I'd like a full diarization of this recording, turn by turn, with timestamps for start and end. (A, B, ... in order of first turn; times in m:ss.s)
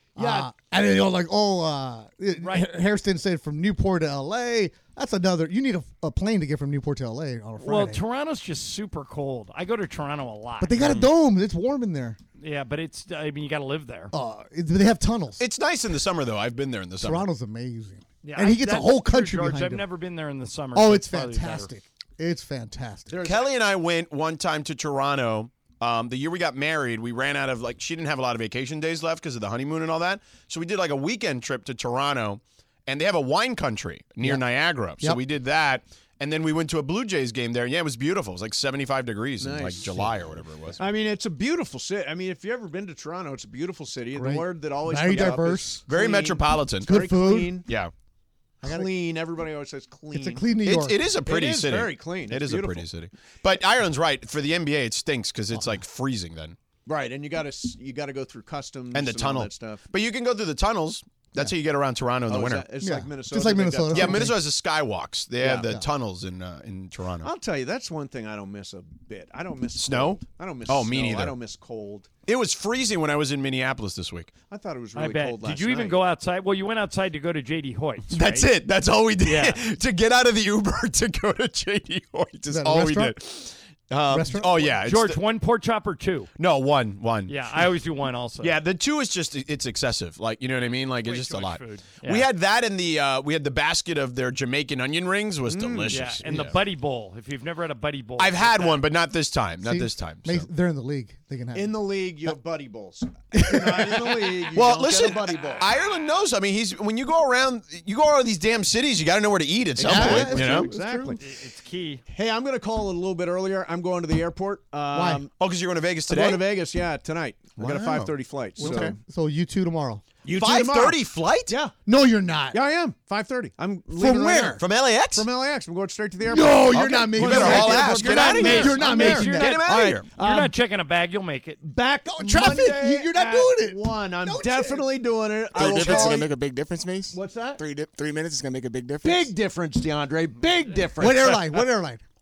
0:00.2-0:08.0 A
0:00.2-0:00.5 B
0:02.4-0:02.7 C
0:07.6-0:10.8 C
0:10.6-0:12.2 A
0:10.8-0:11.1 D
0:12.4-0:14.1 C
0:14.1-0:15.4 A
0:15.4-0:17.3 D
0:17.0-0:19.8 A
0:18.2-0:21.7 C
0:20.8-0:23.2 A
0:23.1-0:23.5 B
0:23.2-0:40.8 D
0:39.4-0:47.7 B
0:44.1-0:45.9 A
0:45.9-0:47.0 D
0:46.8-0:47.6 A
0:47.6-0:47.9 D
0:48.6-0:48.9 A
0:48.6-0:50.6 B
0:50.1-0:51.0 A
0:50.6-0:56.6 D
0:51.2-0:52.9 B
0:55.5-0:55.8 A
0:56.9-0:59.9 B
0:58.9-1:02.7 D
1:02.3-1:04.4 B
1:02.8-1:04.4 A
1:03.9-1:07.3 D
1:05.4-1:05.7 B
1:05.6-1:05.8 A
1:07.2-1:12.1 B
1:09.8-1:11.4 D
1:12.3-1:14.3 D
1:14.5-1:16.0 B
1:15.0-1:18.5 C
1:18.1-1:25.2 D
1:19.2-1:19.6 C
1:22.5-1:23.2 A
1:24.1-1:24.8 A
1:24.8-1:26.3 C
1:26.4-1:27.4 D
1:27.3-1:28.6 C
1:28.4-1:36.6 D
1:31.0-1:32.3 C
1:35.5-1:36.2 B
1:35.9-1:38.8 C
1:38.2-1:40.4 D
1:39.6-1:41.8 A
1:41.6-1:45.7 B
1:43.3-1:44.0 A
1:44.5-1:50.7 D
1:49.8-1:51.2 B
1:49.8-1:51.2 A
1:51.2-1:52.0 C
1:52.1-1:55.3 B
1:54.9-1:55.2 A
1:55.3-1:56.4 D
1:56.1-1:59.0 B
1:57.6-1:59.0 D
1:58.6-2:00.0 A
2:00.2-2:01.8 B
2:00.3-2:01.6 D
2:01.8-2:02.6 A
2:02.5-2:04.6 B
2:03.9-2:04.6 A
2:04.5-2:05.3 D
2:05.1-2:10.5 B
2:06.3-2:09.6 A
2:06.8-2:10.1 D
2:08.3-2:11.6 C
2:11.6-2:16.3 B
2:12.2-2:14.9 A
2:15.5-2:19.3 E
2:15.8-2:16.2 A
2:17.1-2:17.6 B
2:19.0-2:21.7 B
2:21.0-2:22.0 A